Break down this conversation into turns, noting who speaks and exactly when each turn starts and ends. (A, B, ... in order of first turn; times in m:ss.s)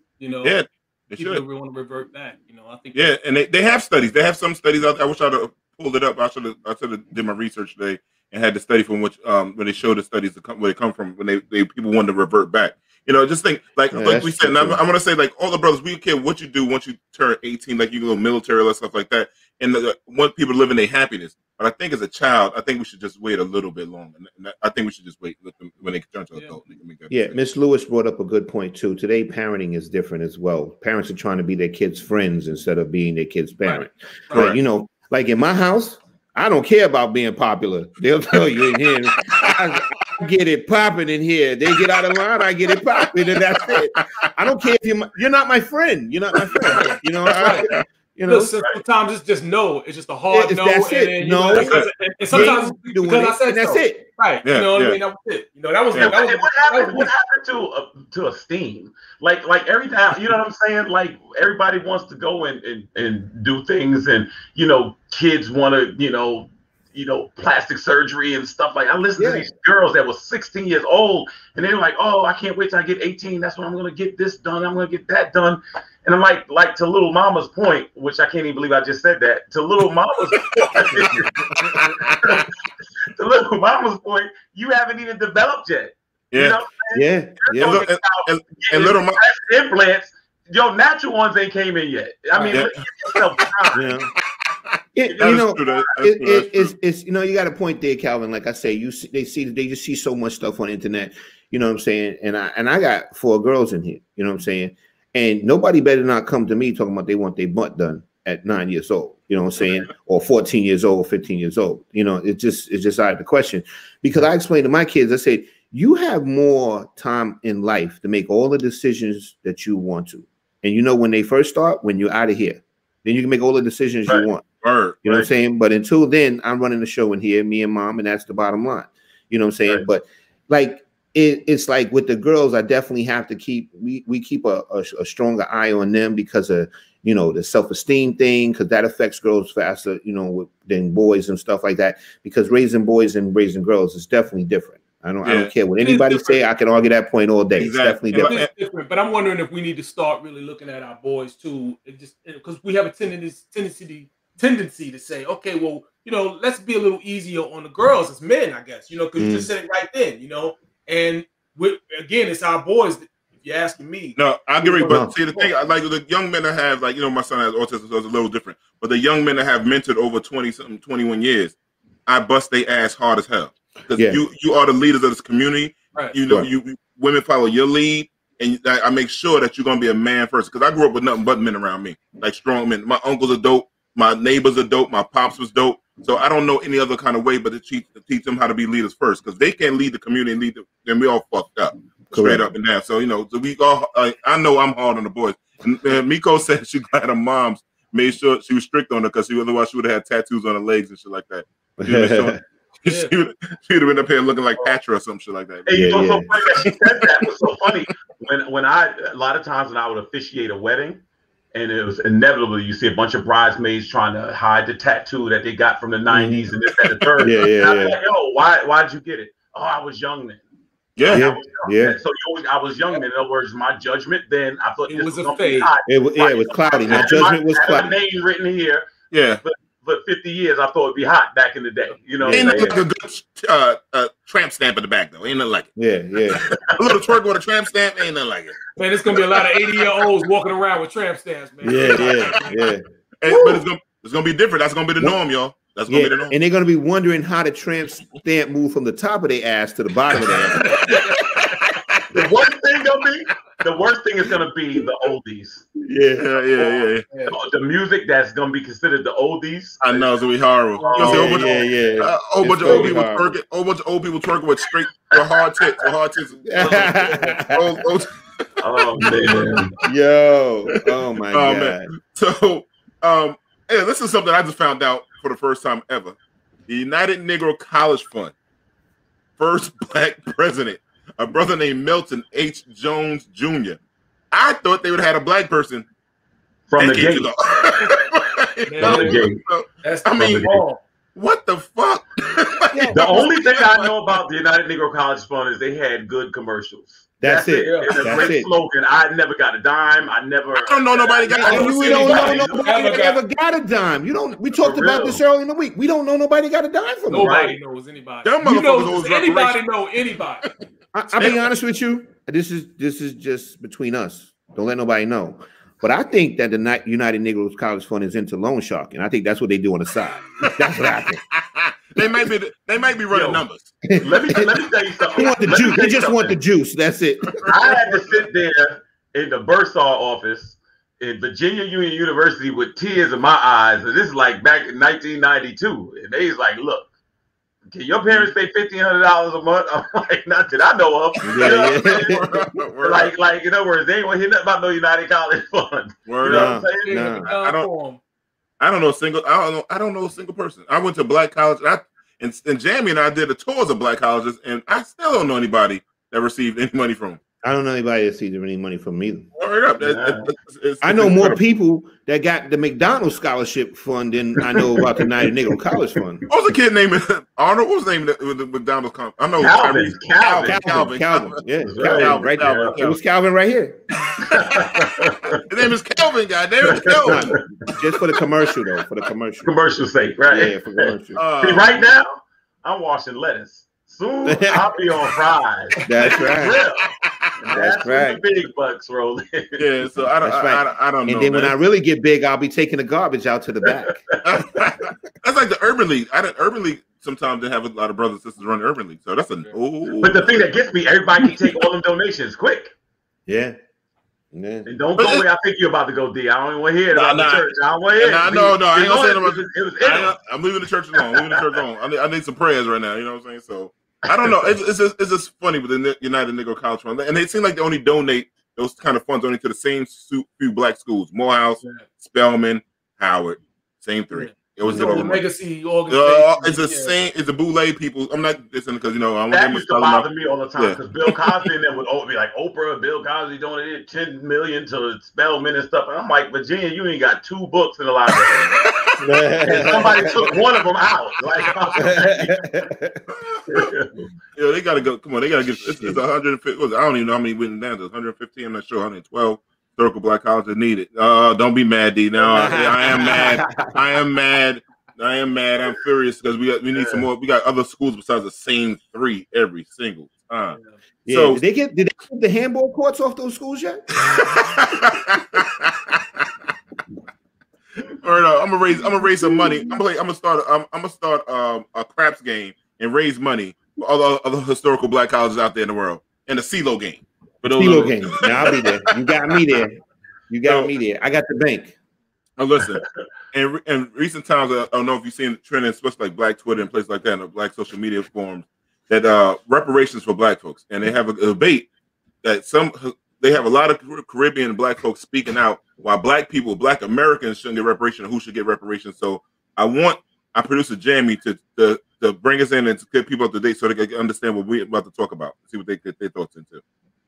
0:00.2-0:00.6 A
0:00.4-0:01.4 B
0:01.2-0:03.1 A
0:02.9-0:27.4 B
0:13.9-0:14.8 C
0:27.1-0:48.5 C
0:33.6-0:34.6 A
0:34.3-0:34.6 B
0:43.3-0:44.3 B
0:46.4-0:46.7 B
0:46.7-0:47.7 A
0:47.2-0:47.8 B
0:48.3-0:57.1 A
0:50.3-0:54.0 C
0:51.5-0:52.6 B
0:54.4-0:55.0 B
0:56.0-1:21.3 D
1:09.2-1:09.5 C
1:21.6-1:22.4 B
1:23.1-1:33.8 D
1:26.3-1:26.6 B
1:26.9-1:27.8 C
1:27.6-1:29.2 B
1:32.5-1:32.9 B
1:33.8-1:34.1 C
1:34.8-1:36.7 B
1:35.0-2:04.4 C
1:35.1-1:35.4 D
2:04.6-2:05.0 B
2:05.0-2:28.4 C
2:25.2-2:25.5 B
2:25.8-2:26.4 A
2:27.6-2:28.5 B
2:28.1-2:45.5 A
2:39.2-2:39.5 C
2:44.2-2:51.6 B
2:44.8-2:45.1 C
2:52.1-3:25.9 B
2:53.9-2:54.2 C
3:12.1-3:12.5 C
3:21.8-3:22.4 C
3:22.9-3:23.1 A
3:25.7-3:31.0 D
3:25.7-3:26.3 C
3:31.5-3:40.4 D
3:36.1-3:36.5 C
3:37.2-3:38.0 C
3:41.0-3:41.3 B
3:41.0-3:48.9 D
3:41.1-3:42.0 C
3:44.9-3:45.7 A
3:45.9-3:48.0 C
3:46.9-3:47.2 B
3:49.1-3:49.4 B
3:49.4-3:52.8 D
3:52.2-3:52.8 C
3:52.3-3:55.7 B
3:55.8-3:56.4 C
3:56.3-3:58.6 B
3:58.8-4:02.7 A
4:01.6-4:02.8 C
4:01.7-4:02.1 B
4:03.2-4:06.3 B
4:03.3-4:03.6 D
4:05.9-4:10.8 C
4:10.2-4:11.0 B
4:10.8-4:11.2 A
4:11.6-4:12.4 B
4:12.1-4:15.7 D
4:15.8-4:16.3 C
4:16.2-4:17.0 B
4:16.6-4:20.1 D
4:19.8-4:29.6 B
4:20.8-4:21.2 A
4:20.8-4:21.6 D
4:21.0-4:23.4 C
4:22.6-4:23.0 A
4:26.5-4:27.8 C
4:28.6-4:29.7 D
4:29.8-4:31.9 C
4:30.9-4:36.2 B
4:36.7-4:38.3 B
4:39.4-4:43.8 B
4:44.3-4:45.9 B
4:46.7-4:47.3 D
4:46.8-4:50.5 B
4:48.7-4:49.3 A
4:48.8-4:49.4 D
4:49.8-4:50.8 A
4:50.2-4:50.6 D
4:51.2-4:53.7 B
4:52.7-4:53.3 C
4:52.9-5:02.7 D
4:57.2-4:58.5 C
4:57.7-4:58.3 A
5:00.6-5:02.4 B
5:01.4-5:07.4 C
5:01.5-5:03.2 A
5:04.6-5:05.2 D
5:07.1-5:10.5 A
5:07.2-5:07.6 D
5:08.2-5:09.6 B
5:10.9-5:21.2 C
5:11.1-5:11.4 B
5:21.3-5:23.8 B
5:23.1-5:23.4 D
5:24.0-5:26.4 D
5:25.2-5:27.7 C
5:27.4-5:28.0 B
5:27.5-5:36.9 D
5:37.7-5:42.1 D
5:41.2-5:42.5 C
5:41.2-5:43.1 B
5:42.8-5:47.1 D
5:46.1-5:46.6 B
5:46.2-5:47.3 C
5:46.8-5:48.0 A
5:47.3-5:47.7 B
5:48.6-5:57.2 B
5:57.4-5:59.3 C
5:59.4-6:01.4 B
5:59.8-6:00.2 D
6:00.8-6:06.2 C
6:04.6-6:05.0 D
6:06.3-6:13.0 B
6:09.4-6:10.6 D
6:10.4-6:13.8 C
6:11.6-6:12.8 D
6:14.1-6:14.8 B
6:14.2-6:15.4 D
6:15.5-6:17.4 B
6:16.7-6:17.3 D
6:17.0-6:19.5 C
6:19.4-6:29.6 D
6:20.2-6:21.2 C
6:21.2-6:21.9 B
6:24.2-6:24.6 C
6:25.8-6:26.6 C
6:27.5-6:28.2 C
6:29.6-6:31.6 B
6:30.2-6:34.0 C
6:34.2-6:40.5 B
6:40.0-6:42.7 D
6:43.3-6:43.6 C
6:44.3-6:44.7 C
6:44.7-6:50.1 D
6:45.0-6:45.2 B
6:46.9-7:05.3 B
7:04.1-7:07.0 A
7:04.6-7:05.2 C
7:05.9-7:11.4 B
7:09.3-7:18.4 D
7:18.3-7:18.8 B
7:19.0-7:20.2 C
7:19.5-7:20.5 B
7:19.5-7:22.5 D
7:21.8-7:23.0 C
7:23.5-7:24.1 D
7:24.4-7:40.6 B
7:32.2-7:33.7 C
7:41.1-7:44.2 C
7:41.1-7:41.4 B
7:44.3-7:46.0 B
7:48.0-7:58.8 B
7:49.2-7:49.8 C
7:57.5-7:59.8 C
8:00.3-8:01.8 C
8:00.4-8:00.7 B
8:02.4-8:11.7 B
8:12.2-8:26.6 B